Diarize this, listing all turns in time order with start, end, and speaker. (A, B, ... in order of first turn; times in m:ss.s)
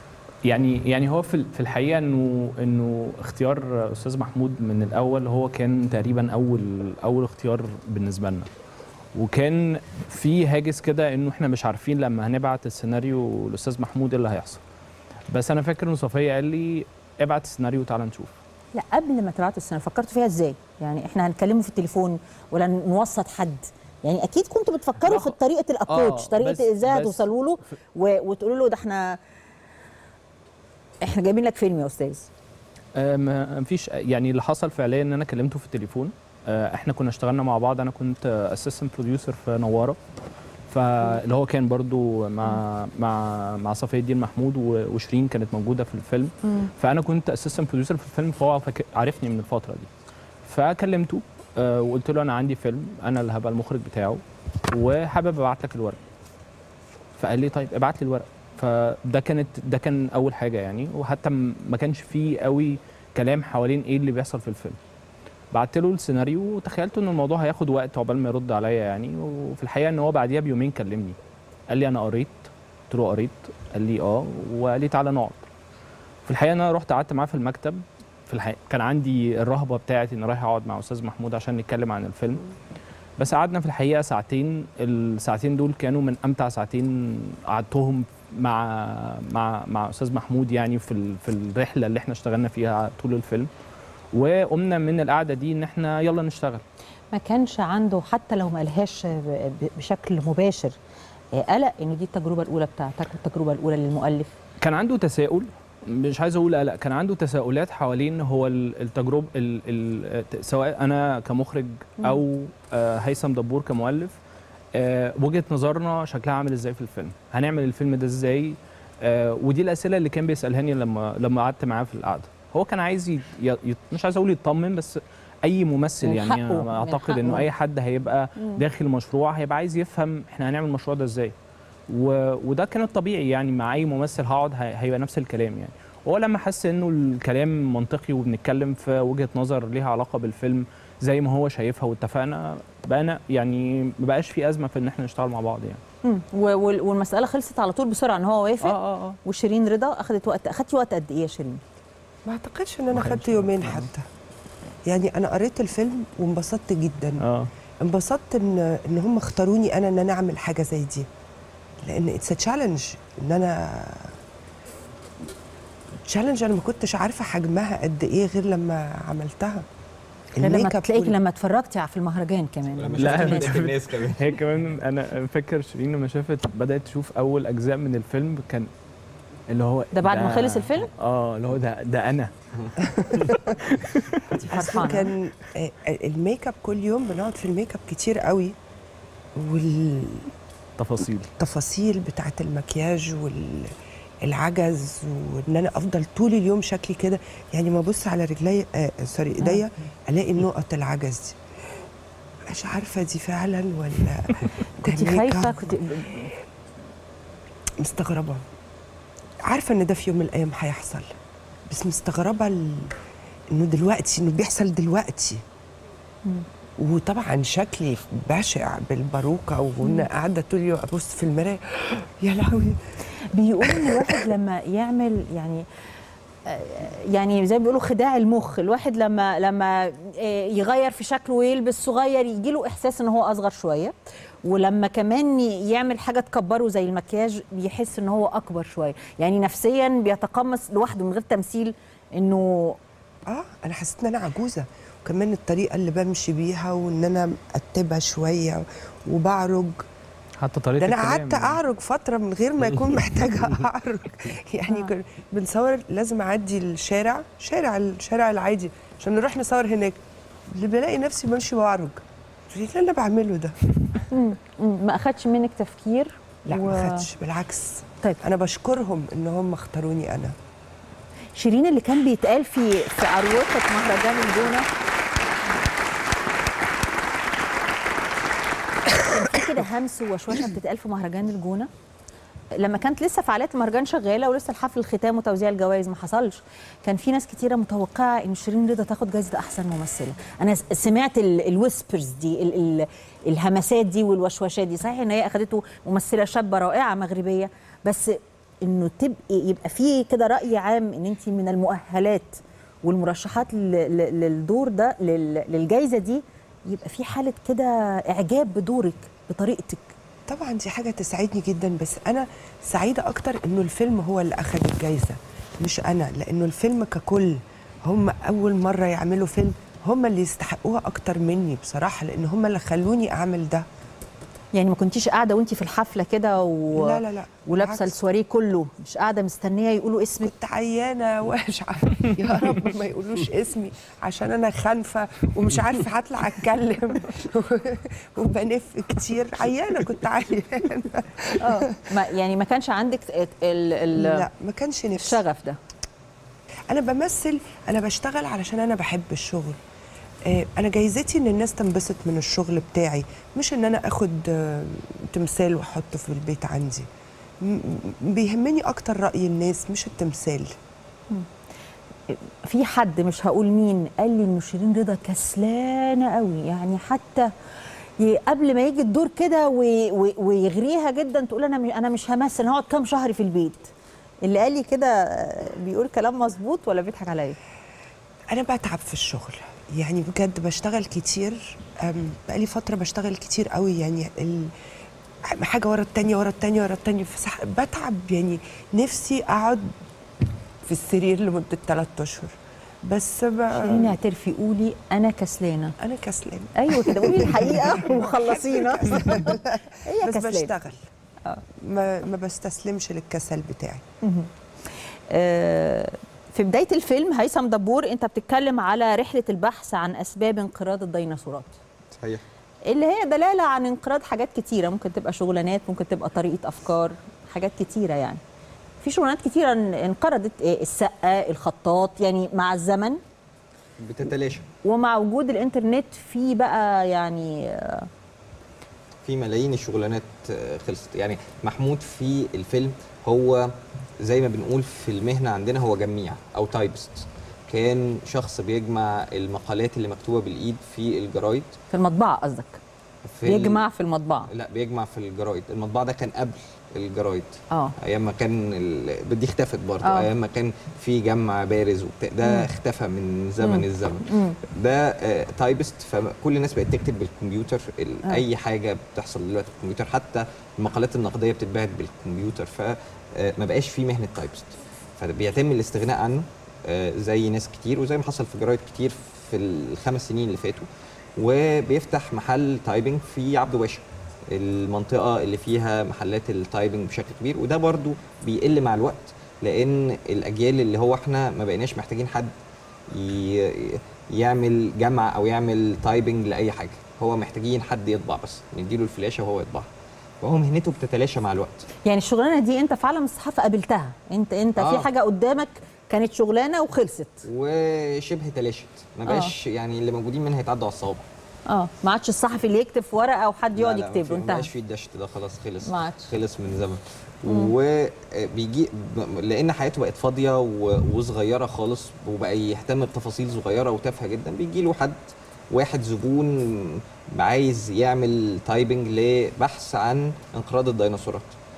0:00.4-0:08.5 A
0:09.1-0:14.6 A
0:15.3-0:18.4 A
0:18.7-0:29.2 B
0:25.0-0:25.4 A
0:25.9-0:27.3 A
0:31.0-0:32.3 B
0:33.0-0:40.0 A
0:40.7-0:49.9 A
0:50.4-0:56.0 A
0:57.2-1:04.8 A
1:05.5-1:11.2 A
1:11.7-1:15.4 A
1:16.2-1:22.4 A
1:23.2-1:33.5 A
1:34.1-1:36.6 A
1:37.1-1:40.8 B
1:41.3-1:44.3 B
1:44.6-1:54.2 A
1:54.8-2:11.3 A
2:06.0-2:07.5 B
2:08.4-2:08.6 B
2:11.9-2:25.8 A
2:26.0-2:31.6 B
2:28.6-2:29.1 A
2:32.3-2:34.0 C
2:33.0-2:33.9 A
2:34.8-2:37.2 C
2:37.2-2:37.5 A
2:37.8-2:41.1 C
2:41.8-2:44.2 C
2:46.1-2:49.6 C
2:50.4-2:51.2 C
2:50.4-2:53.6 B
2:52.7-2:54.4 D
2:53.0-2:58.7 A
2:59.5-3:02.3 A
2:59.9-3:00.9 B
3:02.8-3:03.3 C
3:03.6-3:04.2 A
3:04.4-3:08.5 C
3:04.5-3:05.1 B
3:09.4-3:10.3 C
3:10.8-3:11.3 A
3:11.4-3:13.7 C
3:14.2-3:21.4 C
3:22.5-3:25.6 C
3:24.8-3:26.3 B
3:27.8-3:28.4 C
3:29.4-3:31.1 C
3:31.7-3:32.9 C
3:33.5-3:35.4 C
3:36.8-3:42.8 C
3:43.3-3:45.6 B
3:43.6-3:44.2 C
3:46.4-3:53.9 B
3:54.4-4:02.8 B
4:03.3-4:09.8 C
4:10.4-4:11.6 A
4:10.8-4:20.0 C
4:20.5-4:24.0 C
4:24.1-4:27.0 B
4:26.5-4:30.4 C
4:31.4-4:34.7 B
4:39.0-4:41.7 B
4:42.6-5:09.9 B
5:10.3-5:23.6 C
5:24.5-5:30.3 B
5:26.8-5:27.9 C
5:30.2-5:41.7 C
5:41.4-5:44.2 B
5:44.0-5:45.2 C
5:45.0-5:45.6 B
5:46.7-5:49.6 C
5:50.3-5:56.9 C
5:57.4-6:00.5 C
6:02.1-6:07.3 B
6:08.0-6:13.7 B
6:14.2-6:17.4 B
6:18.3-6:24.5 C
6:25.3-6:29.7 C
6:30.6-6:33.9 C
6:33.6-6:35.7 B
6:35.8-6:40.8 C
6:36.6-6:40.5 B
6:41.6-6:43.8 C
6:44.0-6:44.3 B
6:45.1-6:51.6 B
6:52.0-6:52.2 D
6:52.6-6:58.2 B
6:58.8-7:03.0 B
7:03.8-7:04.4 D
7:04.6-7:07.9 B
7:09.0-7:21.5 D
7:21.7-7:22.6 B
7:23.0-7:23.6 D
7:23.2-7:24.3 B
7:24.3-8:02.3 D
7:33.4-7:34.4 B
8:02.9-8:09.7 D
8:10.2-8:11.6 D
8:11.8-8:17.2 B
8:14.6-8:14.9 D
8:17.3-8:21.0 D
8:19.1-8:19.3 B
8:21.5-8:24.5 B
8:23.5-8:35.0 D
8:25.6-8:26.1 B
8:35.5-8:41.3 D